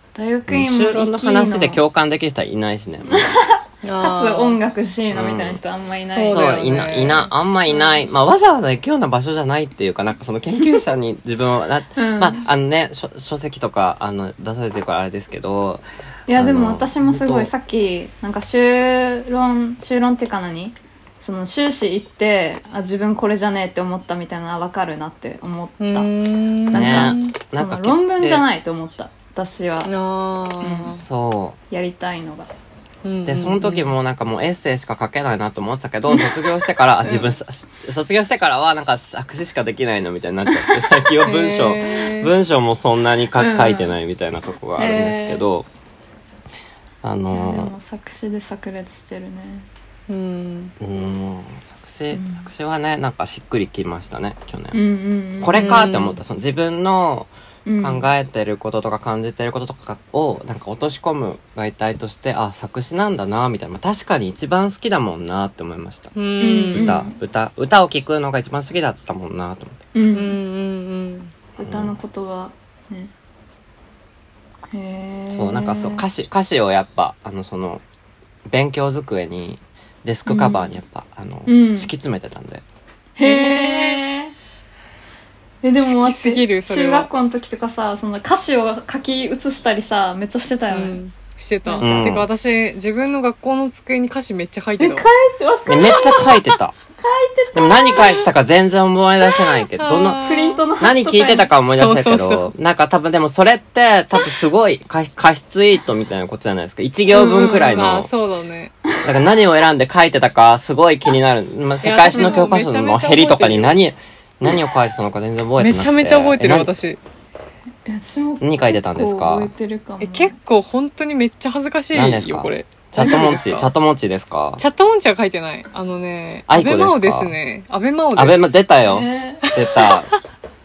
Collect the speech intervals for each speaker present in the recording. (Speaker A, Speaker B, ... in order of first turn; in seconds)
Speaker A: 0.1-1.8, 3.1-6.7, 11.9-12.4, 16.3-26.1, 26.7-29.9, 30.6-31.0, 31.7-32.5, 43.4-43.9, 44.8-45.5, 47.3-49.7, 52.1-52.5, 54.7-55.9, 57.6-58.0, 66.4-67.1, 69.9-70.4, 71.6-73.1, 74.7-76.0, 80.2-80.7, 81.5-81.9, 83.2-84.3, 85.6-91.0, 91.6-92.0, 94.8-98.3, 100.2-101.5, 107.1-107.8, 112.1-112.4, 117.8-120.3, 128.9-129.4
Speaker B: 0.5-3.3, 5.1-5.6, 6.3-17.5, 26.7-28.4, 30.9-31.6, 33.2-45.7, 47.0-47.7, 50.8-54.8, 55.4-57.3, 57.8-66.1, 66.7-69.8, 71.6-72.0, 75.3-77.8, 78.5-82.6, 91.8-92.3, 95.7-96.8, 97.5-100.2, 100.8-108.1, 109.0-116.7, 118.4-119.5, 121.9-124.6, 126.5-127.3, 128.1-130.1
Speaker C: 3.8-4.6, 6.1-7.3, 25.8-27.3, 29.8-31.0, 33.0-33.9, 41.2-42.3, 50.1-50.7, 55.6-56.2, 66.1-66.9, 70.1-71.3, 83.2-84.0, 85.8-87.1, 90.7-95.0, 99.8-100.6, 101.7-102.5, 107.3-108.7, 111.8-113.8, 115.6-117.0, 120.0-123.7, 124.6-128.5, 129.6-130.0